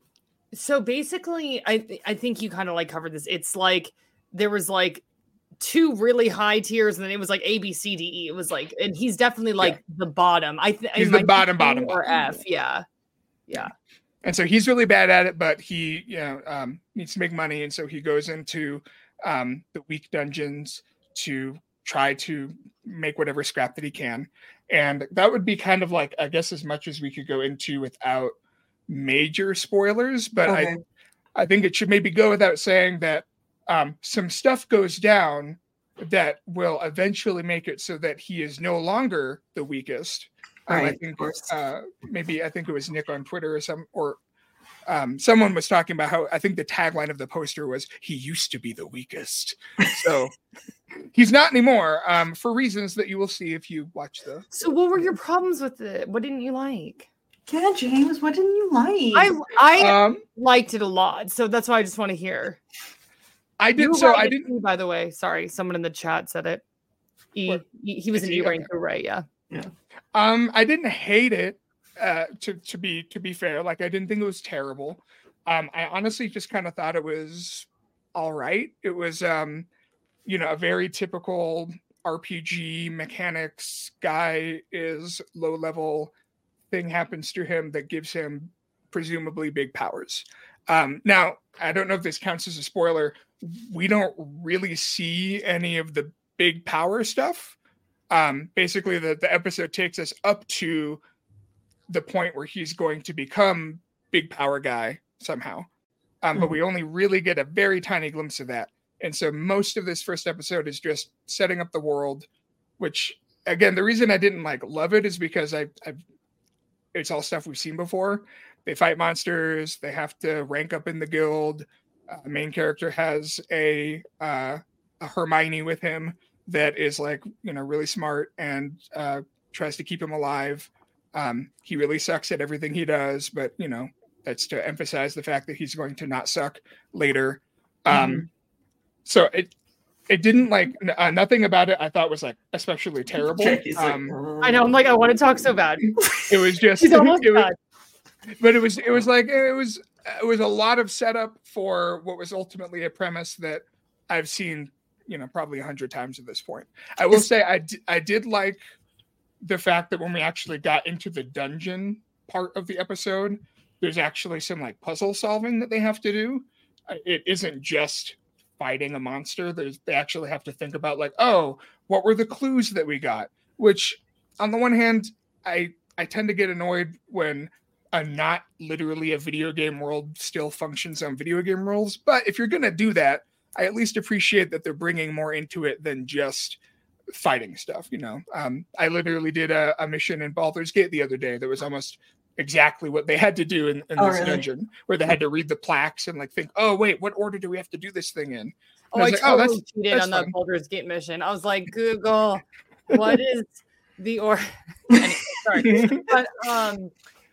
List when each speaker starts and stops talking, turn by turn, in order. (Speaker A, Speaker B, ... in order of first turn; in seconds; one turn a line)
Speaker A: 0.5-5.0
Speaker A: 5.6-12.8
Speaker B: 11.0-12.4
Speaker B: 14.2-28.3
Speaker B: 28.9-30.7
Speaker C: 30.5-30.8
Speaker B: 31.4-44.2
Speaker C: 40.7-41.5
Speaker B: 44.9-50.3
Speaker B: 51.1-54.5
Speaker A: 54.5-57.1
Speaker C: 57.5-59.3
Speaker A: 59.1-62.6
Speaker B: 59.8-60.2
Speaker B: 63.6-64.5
Speaker A: 63.8-66.6
Speaker A: 67.3-69.2
Speaker B: 68.2-68.7
Speaker B: 70.1-79.7
Speaker B: 80.3-86.1
Speaker B: 86.7-97.6
Speaker B: 98.1-101.0
Speaker B: 101.9-105.7
Speaker B: 106.2-112.3
Speaker B: 112.8-116.0
Speaker B: 116.9-138.3
Speaker C: 137.9-138.3
Speaker B: 139.1-139.5
Speaker B: 140.1-144.2
Speaker C: 143.2-144.8
Speaker A: 144.4-146.0
Speaker B: 146.2-147.5
Speaker A: 146.8-147.5
Speaker B: 148.4-158.6
Speaker B: 159.4-186.6
Speaker B: 187.1-200.3
Speaker C: 194.0-194.5
Speaker A: 198.9-206.9
Speaker B: 205.6-206.1